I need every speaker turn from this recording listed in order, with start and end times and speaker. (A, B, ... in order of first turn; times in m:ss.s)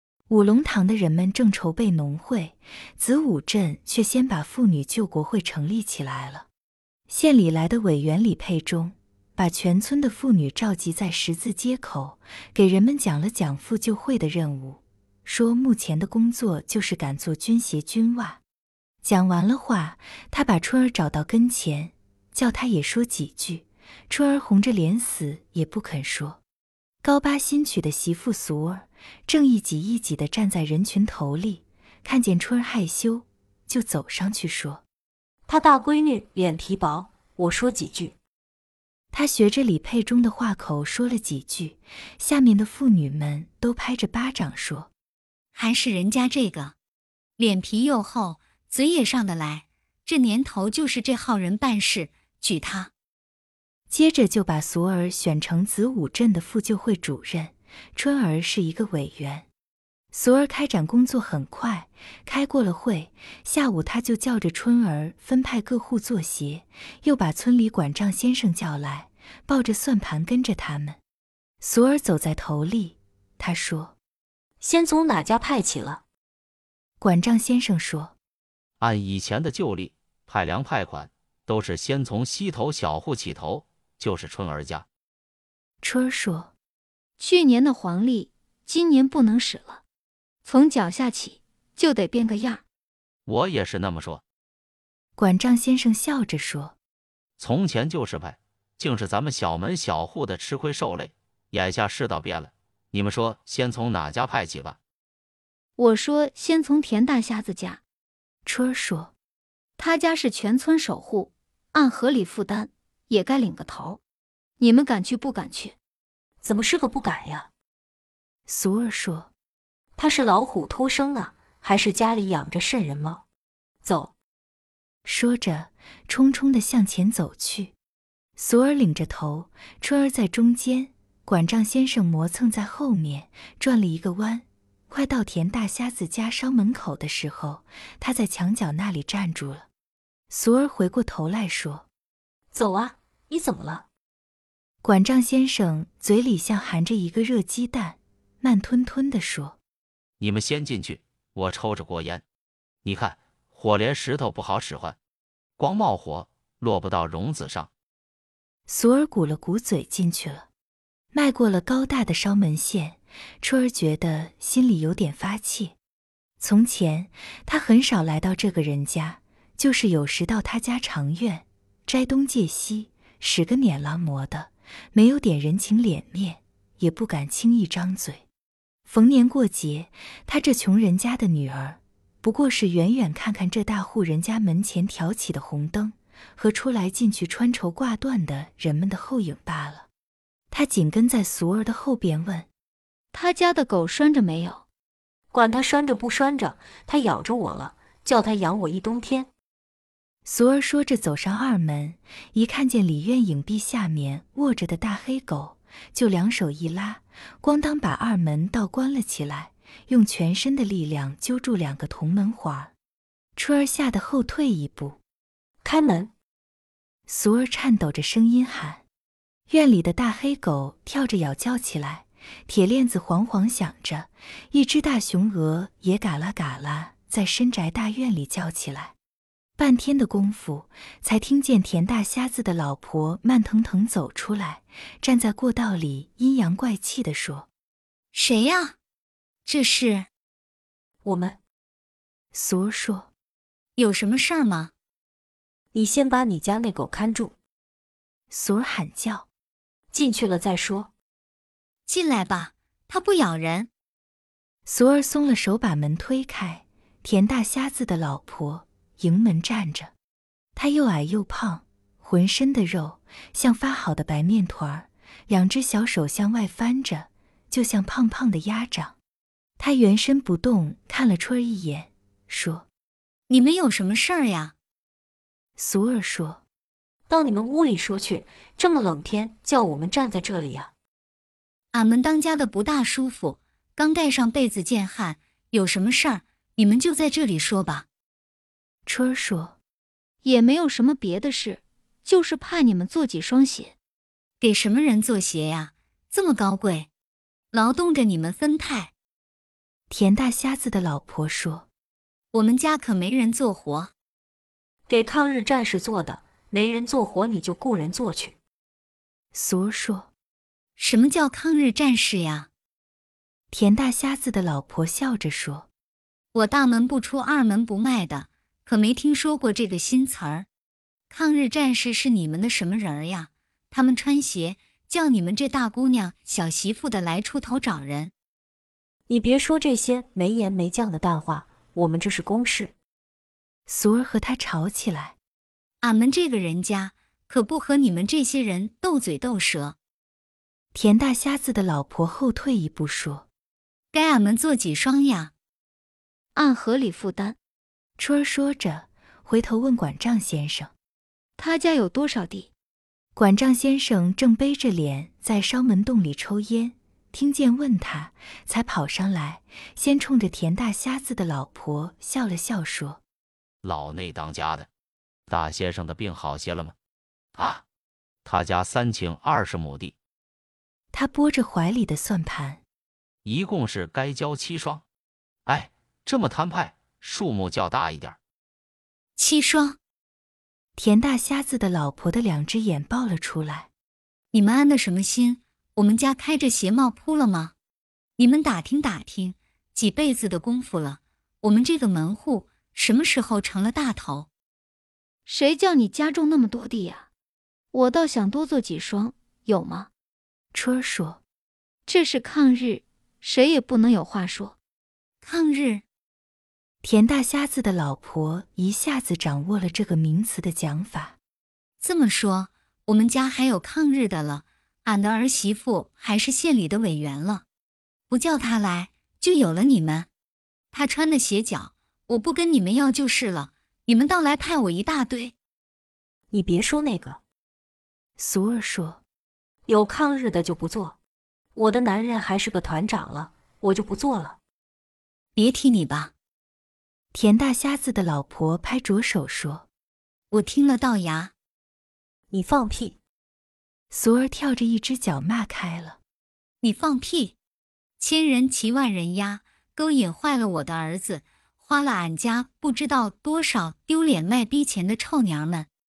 0:00.3-0:06.5 A
0:07.1-0:18.4 A
0:19.0-0:26.4 A
0:27.0-0:34.8 A
0:35.5-0:38.2 B
0:39.1-0:44.9 A
0:45.6-0:46.8 C
0:47.4-0:52.9 C
0:53.9-0:59.5 A
1:00.1-1:11.0 A
1:11.6-1:14.0 A
1:14.6-1:16.0 B
1:17.0-1:18.1 A
1:18.8-1:24.9 D
1:25.8-1:26.5 A
1:27.2-1:29.8 E
1:30.4-1:32.6 E
1:33.3-1:34.2 D
1:35.2-1:36.8 A
1:37.4-1:44.8 D
1:45.8-1:47.8 E
1:48.5-1:49.1 A
1:49.8-1:54.0 E
1:54.6-1:55.8 E
1:56.4-1:57.5 B
1:58.5-1:59.3 A
2:00.0-2:03.2 B
2:03.8-2:04.1 B
2:05.0-2:07.7 A
2:08.4-2:19.7 A
2:20.3-2:21.9 A
2:22.5-2:23.9 B
2:24.8-2:29.6 A
2:30.2-2:32.2 D
2:32.8-2:35.0 D
2:35.6-2:37.7 D
2:38.7-2:40.5 A
2:41.1-2:45.8 A
2:46.4-2:58.2 A
2:58.9-3:09.9 A
3:10.5-3:12.5 A
3:13.1-3:14.6 E
3:15.3-3:19.3 B
3:20.2-3:32.7 A
3:33.4-3:35.0 A
3:35.6-3:36.1 B
3:37.1-3:38.8 A
3:39.5-3:49.0 A
3:49.6-3:57.5 A
3:58.1-3:58.8 C
3:59.4-4:00.1 C
4:01.0-4:01.4 B
4:02.3-4:03.1 A
4:03.8-4:04.7 C
4:05.7-4:07.3 B
4:08.3-4:09.3 A
4:09.9-4:10.9 B
4:11.9-4:13.7 C
4:14.7-4:19.9 A
4:20.6-4:29.0 A
4:29.6-4:32.7 A
4:33.3-4:34.5 C
4:35.6-4:36.4 A
4:37.1-4:40.7 B
4:41.7-4:47.9 C
4:48.9-4:49.6 A
4:50.2-4:53.7 E
4:54.4-4:56.9 C
4:57.5-4:58.9 C
4:59.9-5:01.7 A
5:02.3-5:03.9 C
5:04.9-5:08.4 B
5:09.3-5:10.1 A
5:10.8-5:12.5 C
5:13.5-5:15.7 A
5:16.3-5:20.5 C
5:21.1-5:28.1 C
5:29.1-5:32.8 B
5:33.7-5:35.2 A
5:35.8-5:39.8 C
5:40.7-5:43.3 A
5:43.9-5:45.3 C
5:46.4-5:47.4 E
5:48.0-5:50.7 A
5:51.4-5:52.5 E
5:53.2-6:03.0 A
6:03.6-6:04.7 D
6:05.3-6:06.8 D
6:07.4-6:07.6 D
6:08.2-6:10.0 D
6:10.9-6:12.6 A
6:13.2-6:14.8 D
6:15.5-6:18.2 D
6:19.2-6:19.8 C
6:20.8-6:23.7 A
6:24.3-6:27.5 C
6:28.2-6:34.3 C
6:35.3-6:37.1 E
6:37.7-6:39.9 E
6:40.5-6:41.2 A
6:41.9-6:44.6 E
6:45.2-6:45.8 C
6:46.8-6:51.2 A
6:51.8-6:57.4 C
6:58.1-7:00.1 C
7:00.7-7:05.3 C
7:06.3-7:07.2 B
7:08.2-7:09.0 A
7:09.7-7:11.0 B
7:11.6-7:14.4 B
7:15.4-7:16.1 C
7:17.1-7:19.7 A
7:20.3-7:21.3 C
7:22.3-7:23.0 B
7:23.9-7:26.0 A
7:26.6-7:27.4 C
7:28.0-7:35.7 C